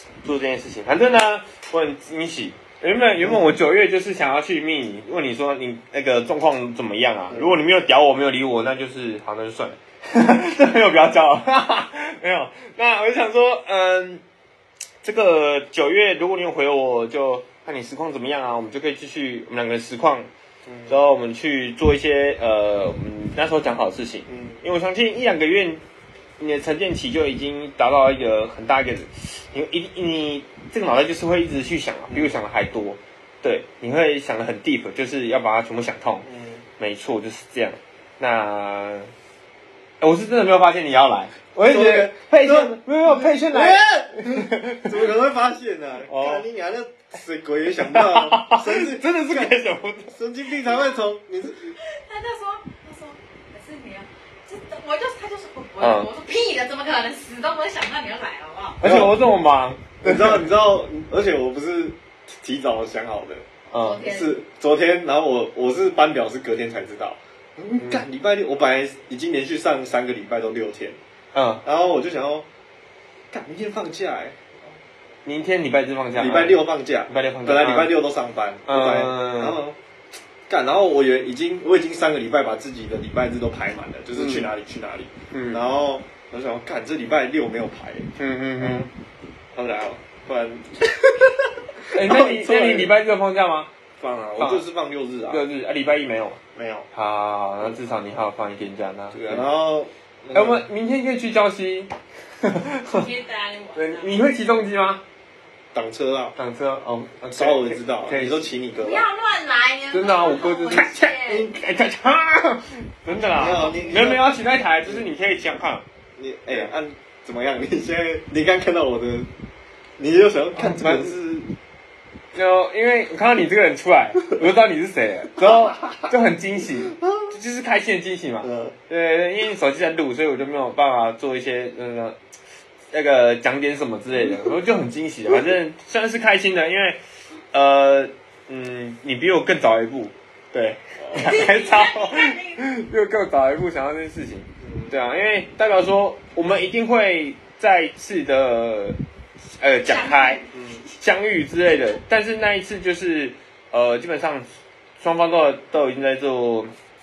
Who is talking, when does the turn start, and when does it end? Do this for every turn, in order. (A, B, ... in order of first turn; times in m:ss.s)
0:00.2-0:14.2 A
0:03.2-0:03.5 B
0:15.0-0:20.3 A
0:20.6-0:21.0 B
0:20.9-0:25.8 A
0:24.3-0:24.6 B
0:26.4-0:36.3 A
0:32.1-0:32.3 B
0:36.2-0:36.6 B
0:36.8-0:39.1 A
0:40.0-0:45.1 A
0:41.6-0:49.6 B
0:46.1-0:46.4 A
0:47.9-0:50.1 A
0:50.1-0:51.8 B
0:50.6-0:51.0 C
0:51.8-0:58.8 C
0:55.8-0:56.1 A
0:58.8-0:59.1 B
0:58.8-1:00.4 A
1:00.0-1:03.4 B
1:03.7-1:04.0 A
1:03.8-1:04.4 C
1:04.0-1:11.0 B
1:07.8-1:08.0 A
1:11.3-1:11.6 A
1:11.6-1:12.4 B
1:13.3-1:14.4 B
1:15.2-1:17.9 A
1:16.1-1:19.8 B
1:18.7-1:19.6 A
1:20.5-1:28.9 B
1:24.2-1:24.5 A
1:25.3-1:25.6 A
1:28.2-1:28.9 A
1:29.5-1:32.9 B
1:31.9-1:33.7 A
1:34.0-1:35.4 B
1:34.4-1:34.6 A
1:35.3-1:36.4 A
1:36.5-1:36.9 B
1:36.9-1:39.5 A
1:39.1-1:40.7 B
1:40.3-1:43.0 A
1:42.8-1:44.2 C
1:43.7-1:45.0 A
1:45.7-1:46.4 B
1:46.4-1:48.5 A
1:47.3-1:49.1 B
1:48.8-1:51.5 C
1:49.9-1:55.8 A
1:53.2-1:54.2 C
1:53.3-1:54.2 B
1:56.2-1:59.3 B
2:00.0-2:01.5 B
2:00.6-2:01.1 A
2:02.3-2:12.2 A
2:05.4-2:05.9 B
2:08.4-2:08.7 B
2:12.9-2:17.0 A
2:17.5-2:29.0 A
2:21.0-2:21.3 B
2:21.1-2:22.6 C
2:24.6-2:25.0 B
2:29.6-2:30.4 A
2:29.9-2:30.6 C
2:30.5-2:30.8 B
2:30.9-2:34.5 A
2:35.0-2:36.7 A